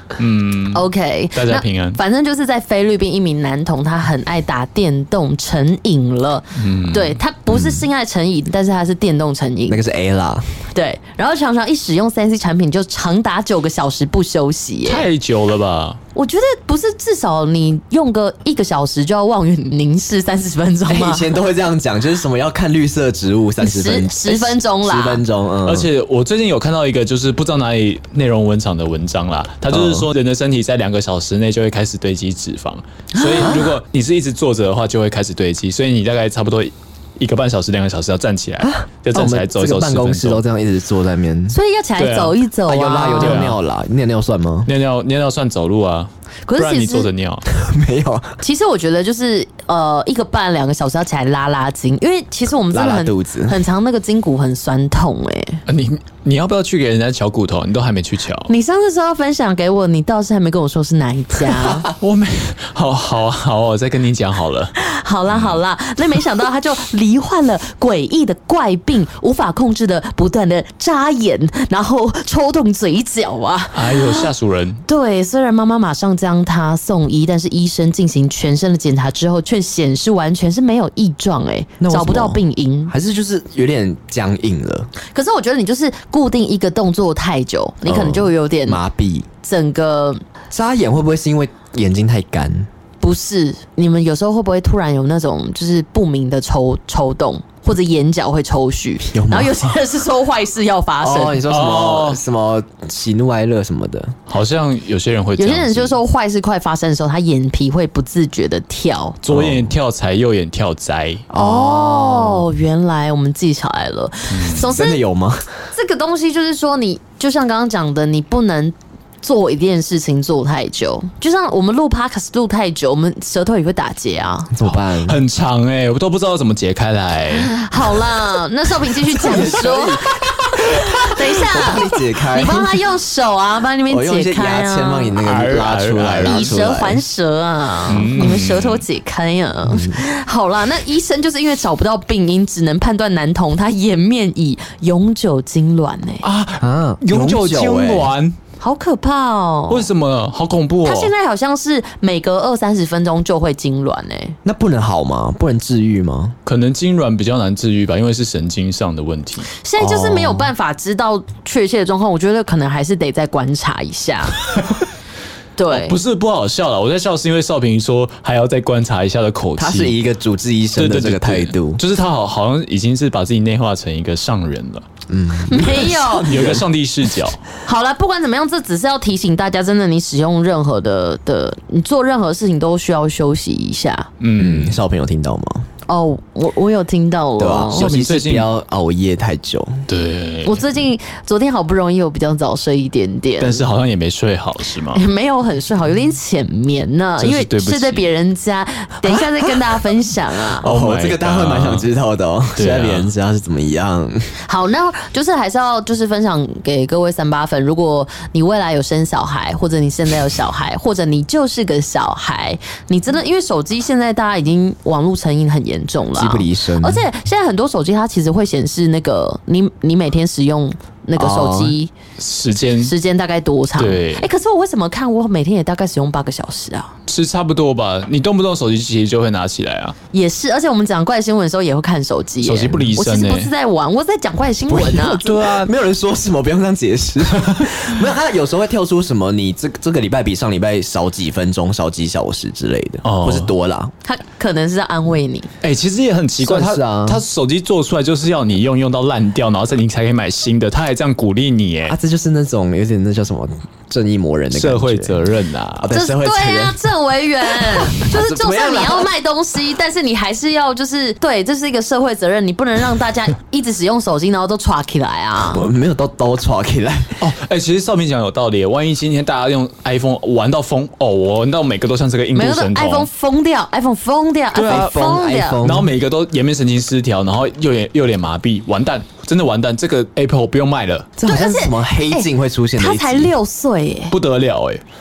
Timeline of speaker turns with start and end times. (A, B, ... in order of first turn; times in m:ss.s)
0:00.2-0:02.0 A
0:00.7-0:09.8 B
0:06.6-0:07.2 A
0:09.7-0:10.5 C
0:10.7-0:15.1 B
0:14.8-0:16.0 A
0:16.2-0:21.3 B
0:20.9-0:25.9 C
0:23.6-0:25.2 B
0:25.6-0:40.4 A
0:29.7-0:30.1 C
0:33.1-0:33.6 B
0:33.4-0:33.8 C
0:38.6-0:41.6 C
0:41.5-0:43.4 B
0:42.0-0:42.4 A
0:42.7-0:44.7 C
0:43.2-0:43.6 A
0:44.7-0:47.4 A
0:46.5-0:47.1 B
0:47.5-0:48.4 C
0:48.4-0:55.6 B
0:52.7-0:53.6 C
0:55.7-0:58.5 A
0:58.5-1:01.9 B
1:01.9-1:04.7 A
1:04.8-1:14.3 B
1:13.7-1:14.8 A
1:14.9-1:22.9 B
1:21.8-1:24.9 C
1:25.1-1:28.8 B
1:27.8-1:29.3 C
1:29.4-1:30.2 B
1:30.5-1:32.7 C
1:33.0-1:41.4 B
1:39.1-1:39.7 C
1:41.0-1:44.2 C
1:41.5-1:42.2 A
1:44.3-1:46.0 A
1:45.4-1:49.2 B
1:49.2-1:51.3 A
1:49.3-1:49.7 C
1:51.3-1:52.4 C
1:51.4-1:55.0 B
1:54.3-1:54.7 A
1:54.6-1:55.4 C
1:55.7-2:04.5 B
2:04.5-2:05.2 C
2:04.7-2:07.5 A
2:07.5-2:15.2 B
2:09.1-2:12.7 C
2:13.9-2:17.0 C
2:15.2-2:16.6 A
2:16.3-2:26.2 B
2:17.9-2:18.8 A
2:19.7-2:20.0 C
2:26.2-2:28.4 A
2:26.6-2:28.1 C
2:28.6-2:29.9 B
2:29.7-2:31.1 A
2:30.8-2:34.4 B
2:34.4-2:36.4 C
2:36.5-2:39.5 A
2:39.6-2:44.4 B
2:39.8-2:40.5 C
2:45.6-2:46.0 B
2:45.7-2:50.0 A
2:49.6-2:51.8 C
2:50.8-2:54.9 A
2:55.1-2:56.7 C
2:55.5-2:56.3 B
2:55.8-2:57.4 A
2:57.6-3:04.1 B
3:04.2-3:04.8 A
3:04.4-3:05.7 C
3:05.9-3:07.9 B
3:07.4-3:09.8 C
3:07.7-3:08.5 A
3:09.9-3:10.7 A
3:10.4-3:13.6 B
3:13.4-3:15.0 A
3:14.9-3:20.6 B
3:17.2-3:18.1 A
3:20.6-3:21.9 A
3:20.6-3:24.4 C
3:22.6-3:23.1 A
3:24.5-3:41.9 B
3:36.1-3:37.1 C
3:41.2-3:41.8 C
3:42.2-3:42.9 A
3:42.8-3:46.9 B
3:43.8-3:44.3 A
3:47.1-3:50.0 A
3:50.1-3:55.3 B
3:52.4-3:53.5 A
3:54.7-4:03.9 C
3:54.9-3:55.7 A
4:03.0-4:03.5 A
4:04.0-4:05.5 B
4:05.6-4:12.0 A
4:06.4-4:07.2 C
4:11.9-4:15.2 C
4:14.5-4:15.9 A
4:15.8-4:16.8 C
4:15.9-4:25.7 B
4:17.6-4:19.1 C
4:25.4-4:27.2 C
4:27.2-4:33.1 A
4:32.4-4:35.6 B
4:34.6-4:34.9 A
4:34.6-4:35.9 C
4:35.6-4:41.1 A
4:41.2-4:43.3 C
4:41.2-4:44.2 B
4:44.1-4:44.8 A